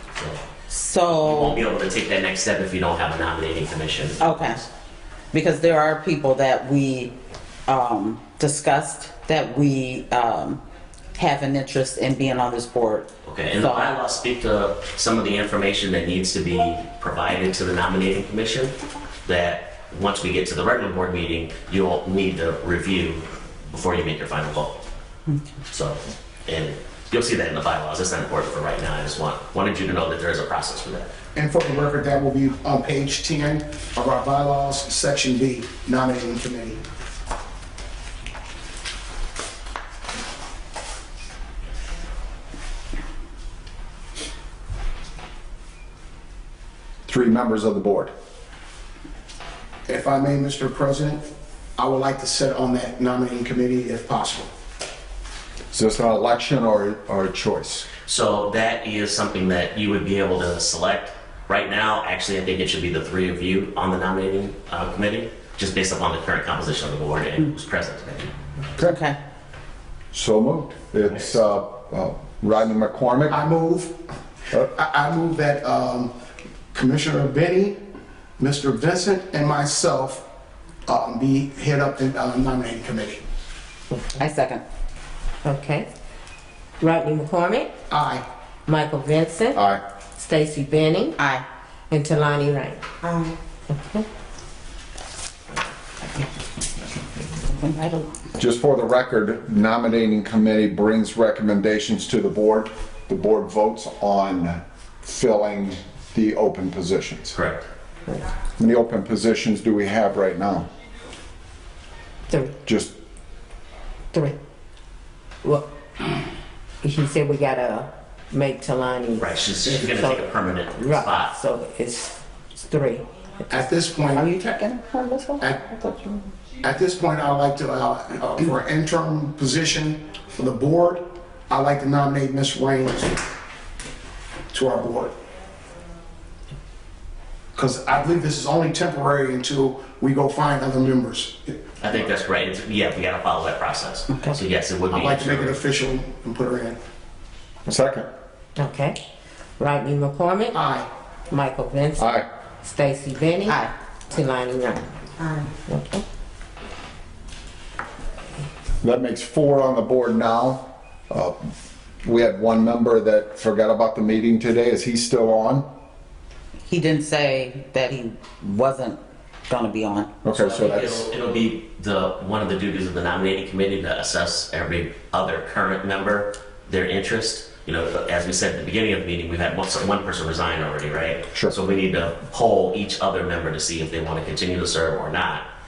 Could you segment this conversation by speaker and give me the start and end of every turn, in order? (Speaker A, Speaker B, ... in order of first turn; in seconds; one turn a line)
Speaker A: 0.1-0.4
Speaker B: 0.7-1.6
Speaker A: 1.1-4.7
Speaker B: 4.2-4.6
Speaker B: 5.3-7.1
Speaker B: 7.7-10.6
Speaker B: 11.1-13.9
Speaker A: 13.2-24.8
Speaker A: 25.7-31.1
Speaker C: 31.3-36.8
Speaker D: 47.1-48.1
Speaker C: 49.9-51.2
Speaker C: 51.8-54.5
Speaker D: 55.7-57.9
Speaker A: 58.0-68.3
Speaker B: 68.8-69.2
Speaker D: 70.1-73.4
Speaker C: 73.3-74.0
Speaker C: 74.5-76.1
Speaker C: 76.7-77.8
Speaker C: 78.4-80.2
Speaker C: 80.8-83.2
Speaker E: 84.1-84.5
Speaker B: 84.2-84.6
Speaker E: 85.4-85.8
Speaker E: 86.8-87.7
Speaker C: 87.9-88.2
Speaker E: 88.7-89.6
Speaker D: 89.5-89.8
Speaker E: 90.2-91.2
Speaker B: 91.2-91.4
Speaker E: 91.9-92.8
Speaker B: 93.0-93.3
Speaker E: 93.7-94.0
Speaker B: 97.3-98.1
Speaker D: 98.4-107.3
Speaker A: 107.3-107.7
Speaker D: 108.6-110.7
Speaker E: 112.3-112.5
Speaker D: 112.6-112.9
Speaker E: 116.8-123.1
Speaker A: 119.2-121.3
Speaker C: 123.5-124.3
Speaker B: 124.1-126.3
Speaker C: 126.6-133.2
Speaker C: 134.5-135.2
Speaker C: 137.5-141.6
Speaker A: 141.8-145.6
Speaker C: 144.9-146.8
Speaker D: 147.7-148.1
Speaker E: 148.6-148.9
Speaker E: 149.6-150.6
Speaker C: 150.5-150.9
Speaker E: 151.3-154.9
Speaker D: 152.0-152.2
Speaker B: 153.5-153.7
Speaker E: 155.5-156.0
Speaker D: 158.8-161.5
Speaker D: 162.0-165.6
Speaker B: 166.7-170.1
Speaker D: 170.2-171.0
Speaker A: 170.3-185.4